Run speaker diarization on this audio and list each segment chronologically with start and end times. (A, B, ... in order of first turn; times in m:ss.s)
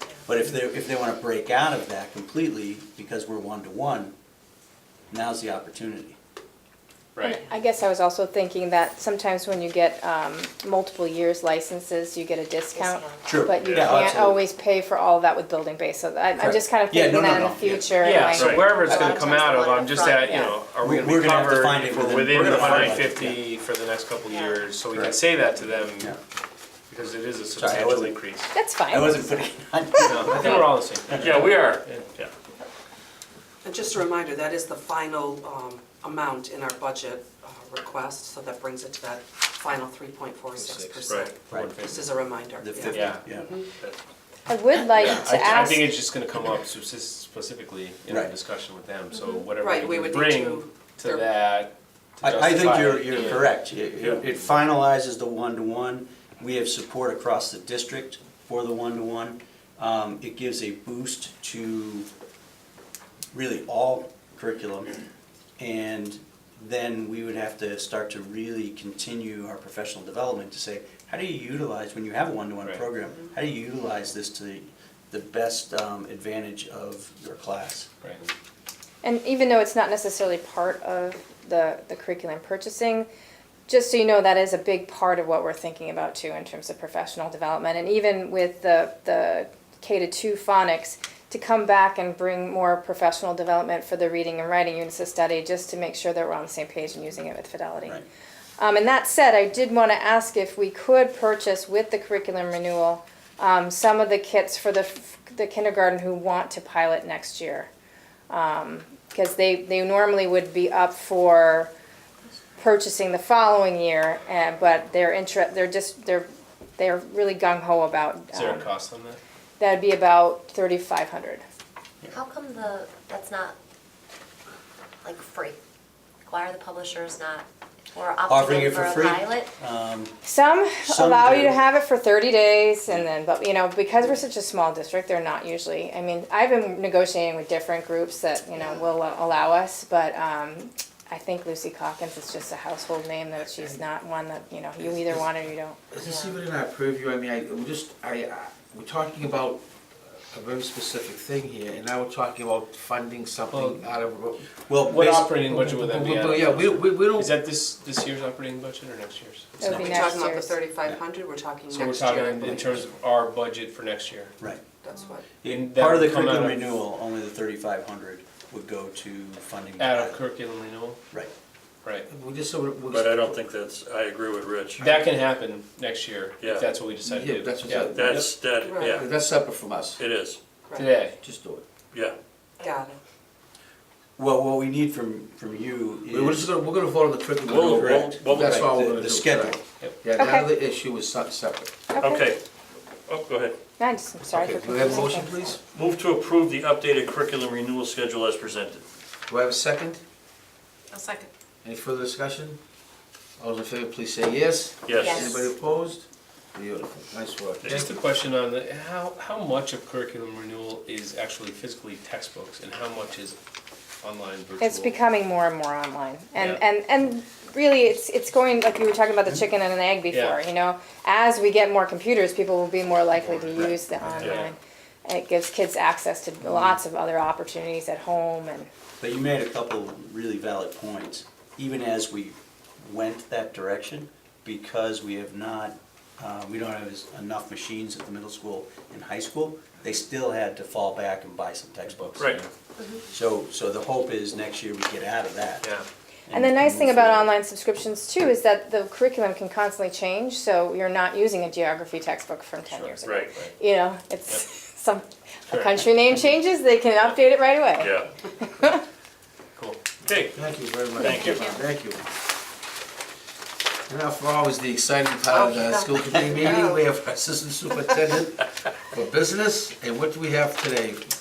0:00.2-0:04.1 A
0:05.1-0:06.2 A
0:07.2-0:07.4 B
0:07.2-0:19.6 C
0:12.8-0:13.2 D
0:13.3-0:14.4 A
0:16.4-0:18.3 A
0:18.0-0:26.2 B
0:18.3-0:18.7 E
0:18.7-0:20.5 D
0:20.1-0:20.6 C
0:20.8-0:23.4 A
0:22.5-0:22.9 E
0:24.3-0:24.6 D
0:24.9-0:25.2 A
0:25.8-0:26.2 A
0:26.9-0:28.5 B
0:27.6-0:28.2 A
0:28.5-0:29.5 C
0:28.9-0:31.5 A
0:30.0-0:32.0 B
0:30.0-0:30.3 C
0:30.4-0:30.7 E
0:31.2-0:32.3 E
0:33.6-0:43.7 F
0:40.6-0:41.0 G
0:41.1-0:41.3 E
0:41.4-0:42.2 B
0:41.5-0:41.8 A
0:42.6-0:43.6 A
0:42.9-0:43.2 B
0:44.5-0:46.0 C
0:44.9-0:53.5 B
0:49.5-0:51.3 F
0:52.2-1:02.1 A
1:03.3-1:05.0 A
1:05.6-1:17.9 A
1:18.0-1:18.3 B
1:19.0-1:23.1 C
1:23.7-1:38.0 C
1:38.6-1:47.7 C
1:48.3-1:51.7 C
1:52.6-1:58.7 C
1:58.3-1:59.2 B
1:59.6-2:01.4 C
2:02.1-2:03.6 D
2:05.0-2:05.6 D
2:06.2-2:09.5 D
2:08.3-2:10.2 A
2:10.2-2:25.8 C
2:10.8-2:11.7 A
2:24.8-2:25.3 G
2:25.9-2:29.6 G
2:26.0-2:26.3 D
2:30.3-2:34.5 G
2:33.5-2:33.9 B
2:34.7-2:35.3 A
2:34.9-2:40.1 B
2:35.4-2:37.4 G
2:39.6-2:40.6 C
2:39.7-2:39.9 A
2:39.8-2:42.9 F
2:41.7-2:44.3 B
2:44.8-2:45.3 F
2:45.4-2:50.3 A
2:45.4-2:46.7 B
2:49.8-2:51.0 B
2:52.1-2:53.4 G
2:52.9-2:55.0 E
2:54.8-2:58.3 B
2:56.4-2:56.7 E
2:57.0-2:58.3 G
2:57.9-2:59.0 E
2:58.6-2:59.1 F
2:58.9-3:00.0 G
3:00.0-3:00.4 E
3:00.7-3:01.0 F
3:00.8-3:01.2 B
3:01.2-3:01.6 G
3:02.6-3:03.0 F
3:04.2-3:06.5 A
3:06.1-3:11.7 G
3:07.5-3:08.7 E
3:07.7-3:09.6 A
3:10.2-3:10.5 C
3:11.9-3:12.3 C
3:12.0-3:12.4 E
3:13.1-3:13.6 E
3:13.8-3:15.5 C
3:14.3-3:15.6 G
3:15.7-3:18.8 E
3:19.3-3:20.0 G
3:21.0-3:21.2 D
3:21.6-3:22.6 G
3:23.4-3:27.9 G
3:24.8-3:25.4 E
3:25.0-3:25.4 D
3:27.6-3:27.9 E
3:27.6-3:33.4 B
3:34.0-3:35.0 B
3:34.6-3:48.7 C
3:40.1-3:40.4 B
3:44.2-3:44.5 E
3:49.0-4:02.5 A
4:01.9-4:02.4 B
4:03.1-4:05.7 A
4:06.3-4:07.3 A
4:06.3-4:18.8 C
4:12.8-4:13.5 B
4:13.0-4:13.4 E
4:15.5-4:15.8 B
4:17.8-4:18.1 E
4:19.6-4:19.9 B
4:20.0-4:20.4 E
4:20.3-4:22.0 G
4:21.0-4:21.6 E
4:23.9-4:31.0 G
4:25.3-4:26.9 F